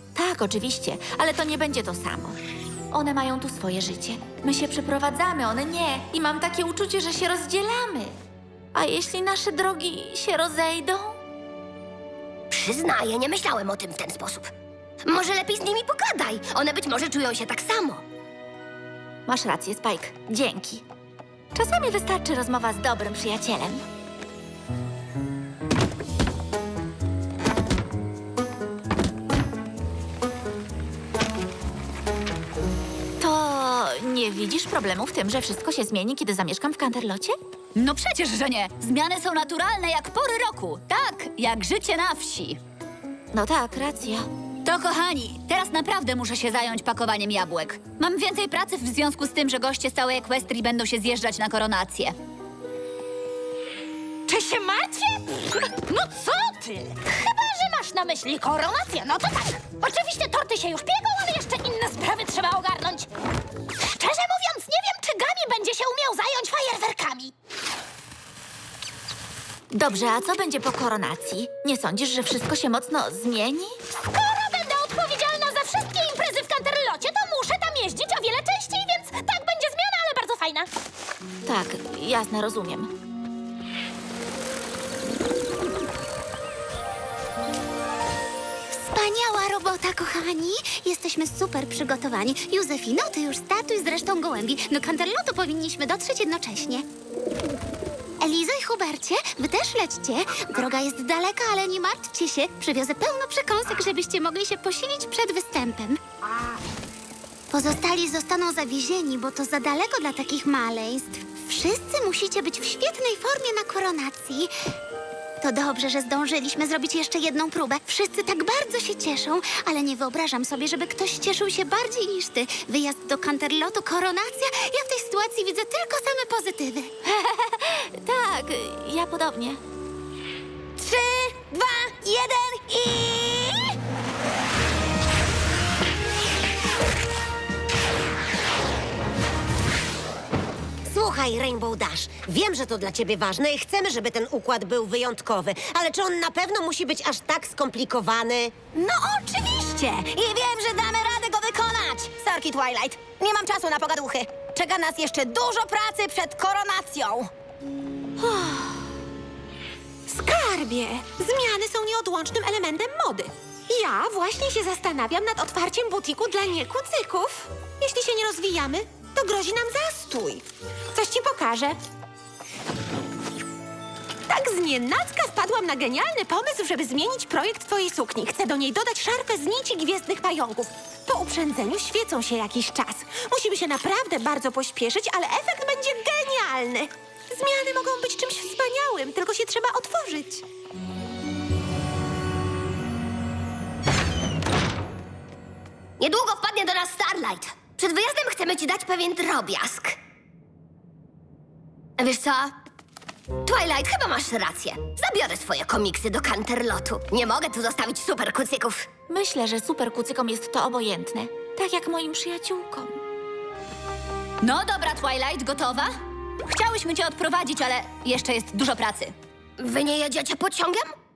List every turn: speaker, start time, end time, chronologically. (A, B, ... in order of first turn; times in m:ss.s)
0:00.2-0:02.4 A
0:02.9-0:08.2 A
0:08.7-0:11.2 A
0:12.5-0:14.5 B
0:15.1-0:18.0 B
0:19.3-0:20.8 A
0:21.6-0:23.8 A
0:33.2-0:37.4 A
0:37.8-0:42.6 C
0:43.3-0:44.3 A
0:44.6-0:52.2 C
0:54.3-1:03.1 D
1:03.9-1:07.3 D
1:09.7-1:13.8 A
1:14.1-1:20.7 D
1:21.4-1:22.9 A
1:28.7-1:36.8 E
1:38.2-1:46.0 E
1:47.5-1:54.5 E
1:55.4-2:06.9 E
2:07.0-2:09.6 A
2:10.8-2:13.7 B
2:20.9-2:28.5 F
2:28.7-2:37.3 G
2:40.1-2:50.4 H
2:51.0-2:51.7 H
2:54.3-3:10.4 H
3:16.0-3:20.0 B
3:22.0-3:22.6 B
3:23.4-3:28.9 B
3:29.1-3:33.0 A
3:34.4-3:35.9 C
3:36.5-3:39.1 C
3:39.6-3:40.9 B